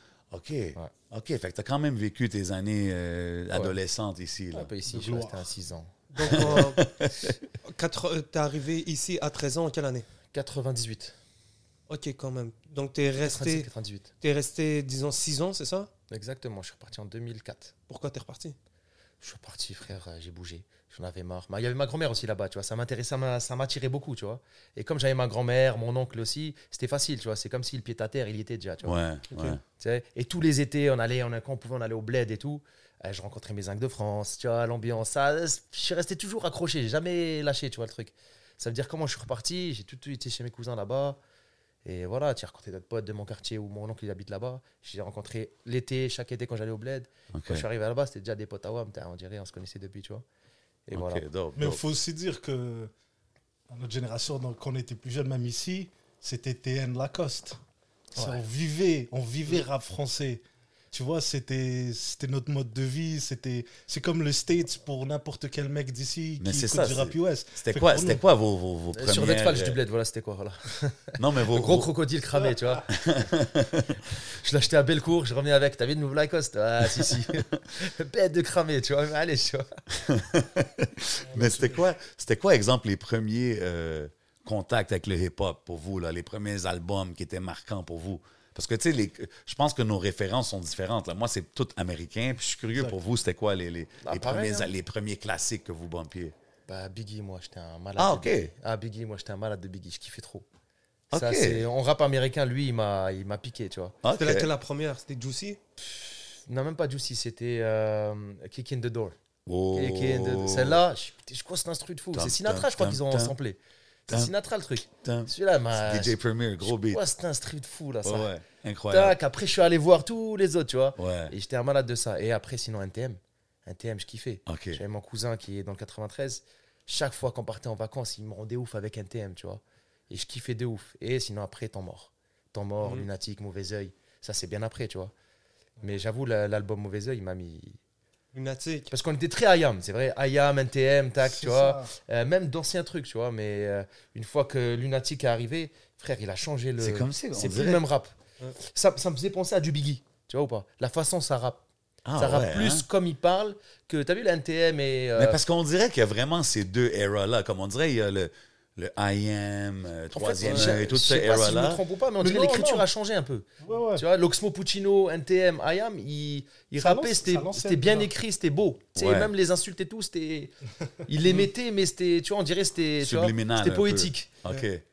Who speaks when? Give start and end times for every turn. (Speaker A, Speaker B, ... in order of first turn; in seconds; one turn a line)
Speaker A: 0.3-4.7
Speaker B: 4.5-6.7
Speaker C: 4.9-5.5
Speaker D: 6.1-6.8
Speaker A: 6.2-7.4
Speaker D: 7.6-10.1
Speaker B: 10.3-11.2
Speaker D: 11.9-13.7
Speaker B: 13.2-14.1
Speaker D: 14.2-15.9
Speaker B: 16.1-17.7
Speaker D: 17.9-18.6
Speaker B: 19.2-29.0
Speaker A: 28.8-29.6
Speaker D: 29.3-29.6
Speaker B: 29.6-41.2
Speaker B: 41.9-50.2
Speaker A: 47.3-47.6
Speaker B: 50.9-51.2
Speaker A: 50.9-51.8
Speaker C: 51.6-52.9
Speaker C: 53.7-57.6
Speaker C: 58.1-68.2
Speaker B: 58.1-58.4
Speaker A: 66.4-69.8
Speaker B: 68.9-72.9
Speaker A: 71.2-71.9
Speaker A: 72.9-74.0
Speaker B: 74.3-79.7
Speaker A: 80.0-96.3
Speaker C: 81.3-81.7
Speaker B: 94.0-94.7
Speaker B: 96.7-100.5
Speaker A: 98.0-98.5
Speaker A: 101.1-101.7
Speaker B: 101.1-104.0
Speaker A: 104.0-104.5
Speaker D: 104.2-105.6
Speaker B: 105.8-109.2
Speaker A: 109.5-110.8
Speaker B: 109.7-118.3
Speaker A: 112.2-113.3
Speaker A: 115.0-117.0
Speaker A: 118.0-119.2
Speaker B: 118.9-135.1
Speaker A: 121.0-121.3
Speaker A: 124.5-124.8
Speaker D: 132.8-133.1
Speaker B: 135.8-137.8
Speaker D: 138.3-138.9
Speaker B: 138.9-151.6
Speaker C: 141.2-141.9
Speaker A: 146.8-147.8
Speaker A: 152.1-152.8
Speaker B: 152.2-155.4
Speaker A: 155.2-161.8
Speaker B: 160.1-170.5
Speaker D: 160.4-160.7
Speaker C: 162.2-162.9
Speaker C: 163.6-164.0
Speaker C: 166.8-168.1
Speaker A: 169.0-169.3
Speaker B: 171.1-174.3
Speaker A: 173.0-174.8